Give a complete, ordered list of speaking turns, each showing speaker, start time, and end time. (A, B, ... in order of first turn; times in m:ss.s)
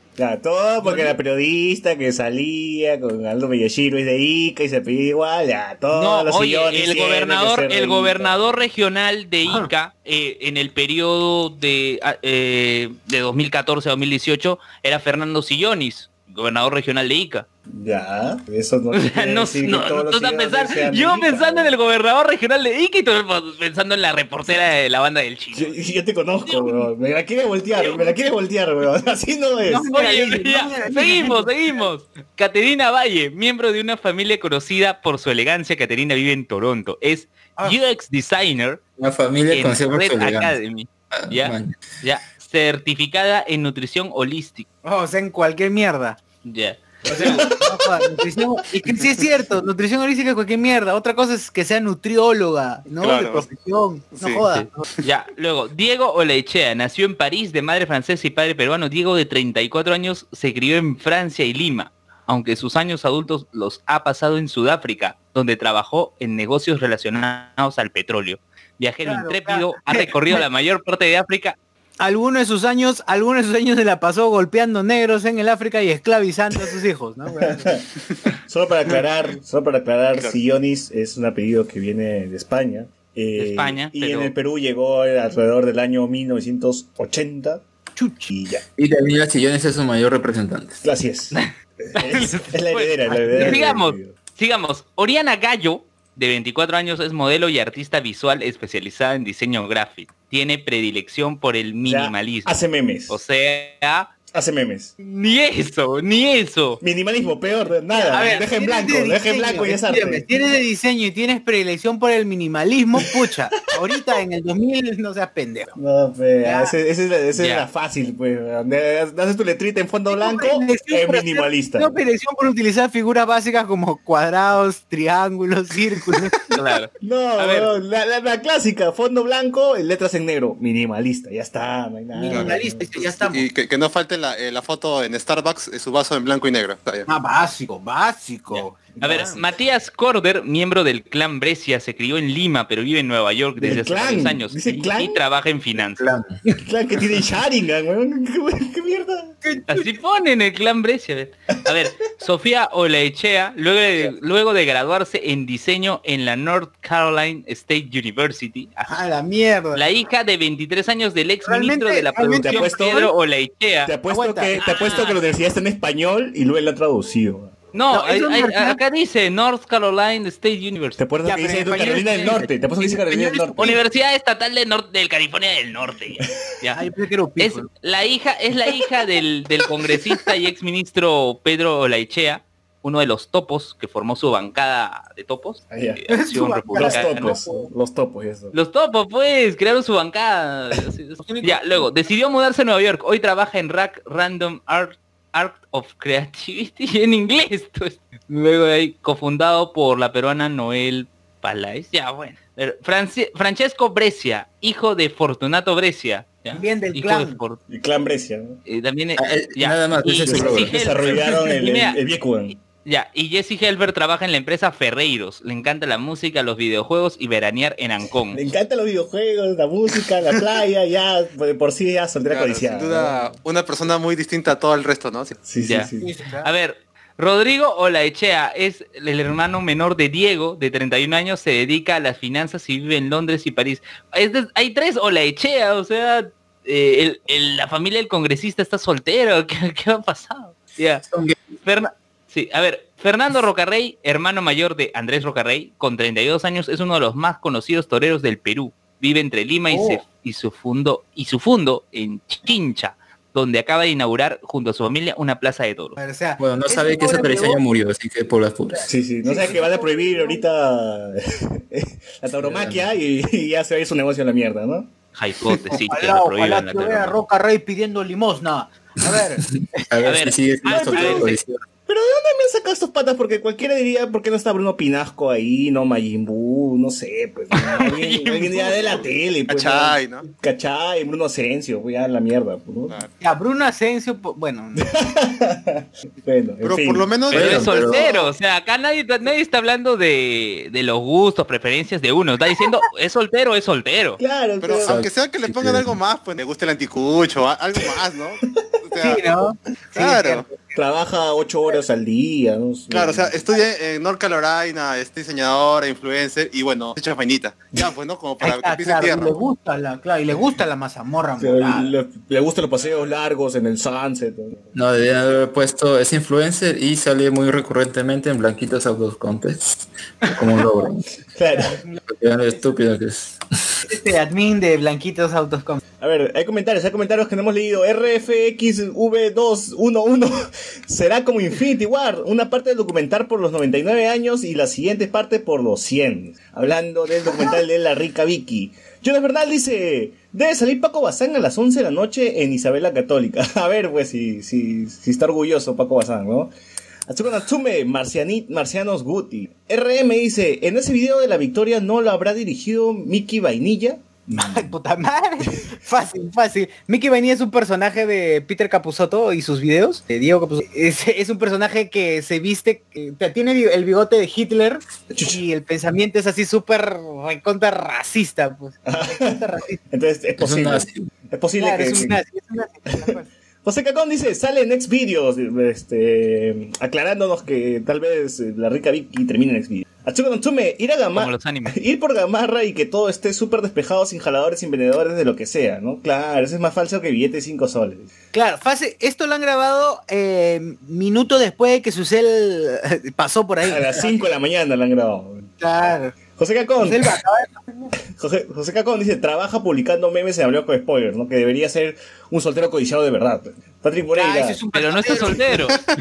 0:00.2-0:08.4 A
0:00.8-0:01.1 B
0:05.9-0:17.4 B
0:17.7-0:21.8 A
0:18.9-0:25.7 B
0:25.5-0:29.9 A
0:26.5-0:26.8 C
0:29.7-0:31.5 C
0:29.9-0:38.8 B
0:39.0-0:40.5 D
0:39.5-0:44.6 B
0:41.1-0:41.8 D
0:44.8-0:46.2 C
0:46.4-0:47.5 B
0:47.1-0:48.0 A
0:47.1-0:54.9 C
0:53.0-0:53.4 E
0:54.1-0:54.4 E
0:54.5-1:11.6 B
1:09.0-1:10.4 C
1:12.0-1:17.8 C
1:17.4-1:17.8 A
1:18.5-1:27.6 A
1:23.4-1:24.3 B
1:28.0-1:28.3 C
1:28.3-1:28.6 A
1:28.8-1:30.8 D
1:30.8-1:34.2 A
1:32.2-1:42.5 B
1:33.0-1:33.7 C
1:41.8-1:43.2 A
1:43.1-1:44.1 B
1:44.3-1:44.9 A
1:45.0-1:46.8 B
1:46.8-1:50.3 A
1:47.9-1:55.8 C
1:55.8-2:02.0 A
1:56.4-1:56.7 C
1:57.4-1:57.7 B
2:00.1-2:06.4 C
2:06.5-2:07.7 B
2:07.0-2:12.9 A
2:12.1-2:13.5 C
2:12.3-2:17.1 E
2:17.1-2:19.4 C
2:18.5-2:26.1 B
2:19.0-2:19.3 A
2:23.6-2:25.2 A
2:26.0-2:26.3 D
2:26.5-2:29.4 A
2:29.4-2:29.9 C
2:29.7-2:39.0 B
2:38.8-2:39.8 C
2:39.7-2:43.9 B
2:41.4-2:42.7 C
2:42.2-2:43.1 A
2:43.8-2:47.5 A
2:44.1-2:45.1 C
2:44.6-2:45.3 B
2:47.7-2:51.0 B
2:47.9-2:48.8 C
2:51.0-2:53.8 A
2:51.2-2:52.5 C
2:51.8-2:56.8 B
2:53.2-2:53.5 C
2:56.8-2:57.7 C
2:57.4-3:07.4 B
3:05.7-3:06.0 A
3:06.1-3:07.7 C
3:06.7-3:08.5 A
3:08.5-3:27.6 B
3:11.2-3:11.8 C
3:26.5-3:27.4 C
3:27.7-3:28.6 A
3:28.6-3:32.0 B
3:29.2-3:31.2 D
3:30.2-3:32.6 A
3:32.8-3:38.4 B
3:38.3-3:43.3 A
3:42.3-3:45.4 E
3:45.4-3:46.1 A
3:45.6-3:45.9 B
3:46.0-3:46.5 C
3:46.4-4:01.0 B
4:01.1-4:01.4 D
4:01.6-4:16.0 B
4:09.7-4:10.0 C
4:16.0-4:17.6 C
4:16.4-4:18.9 D
4:18.7-4:20.4 C
4:18.9-4:24.9 A
4:22.4-4:22.9 D
4:25.2-4:27.2 B
4:25.7-4:30.1 C
4:29.5-4:31.6 D
4:30.0-4:31.4 B
4:30.7-4:31.3 C
4:31.9-4:43.0 A
4:37.7-4:38.6 B
4:39.5-4:40.2 E
4:43.2-4:44.8 C
4:44.8-4:47.1 A
4:46.6-4:48.0 E
4:47.3-4:54.2 B
4:47.3-4:48.1 D
4:54.2-4:55.0 A
4:54.6-4:59.2 E
4:54.8-4:56.0 D
4:59.0-5:00.6 C
5:00.0-5:00.4 E
5:00.7-5:03.4 A
5:02.9-5:09.4 E
5:08.4-5:11.9 C
5:11.4-5:14.7 A
5:12.8-5:13.1 E
5:14.7-5:21.0 D
5:21.3-5:21.8 A
5:21.5-5:22.6 C
5:22.1-5:23.8 D
5:23.9-5:25.8 C
5:26.0-5:46.5 A
5:47.1-5:54.7 A
5:54.3-6:09.8 C
6:05.1-6:05.4 A
6:08.8-6:12.2 A
6:10.4-6:11.0 D
6:11.6-6:13.3 C
6:13.6-6:28.1 A
6:21.1-6:21.8 B
6:28.3-6:34.2 C
6:33.6-6:35.5 A
6:35.6-6:36.1 C
6:36.4-6:37.1 A
6:36.8-6:37.9 C
6:38.1-6:44.6 A
6:44.1-6:45.6 C
6:44.7-6:45.9 B